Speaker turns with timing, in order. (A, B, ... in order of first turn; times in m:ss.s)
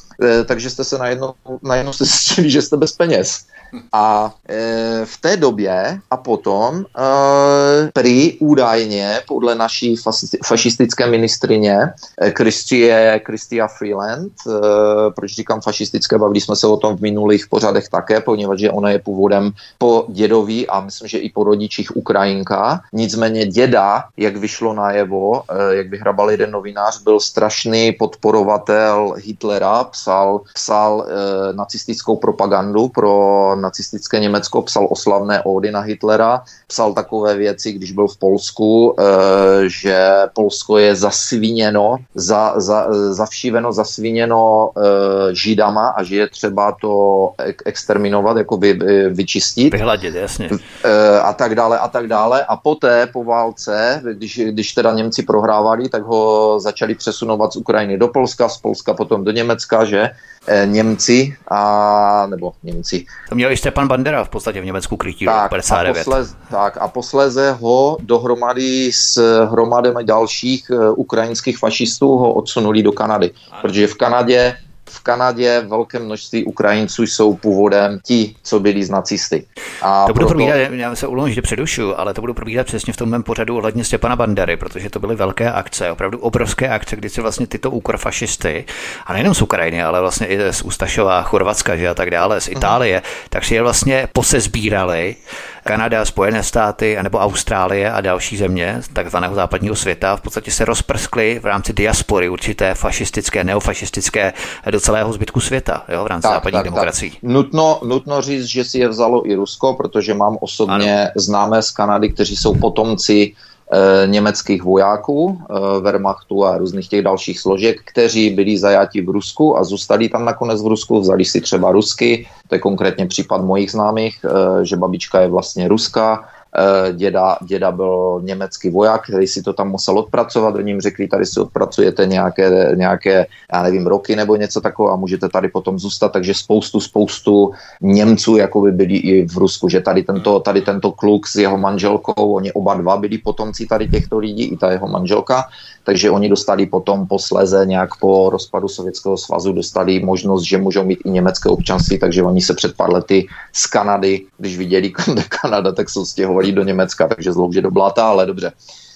0:00.2-0:49.8 A
0:49.7-0:50.6 B
0:50.6-1:03.1 A
1:03.3-1:06.2 B
1:05.2-1:20.5 A
1:20.0-1:47.2 B
1:46.2-2:38.5 A
1:50.7-1:50.9 B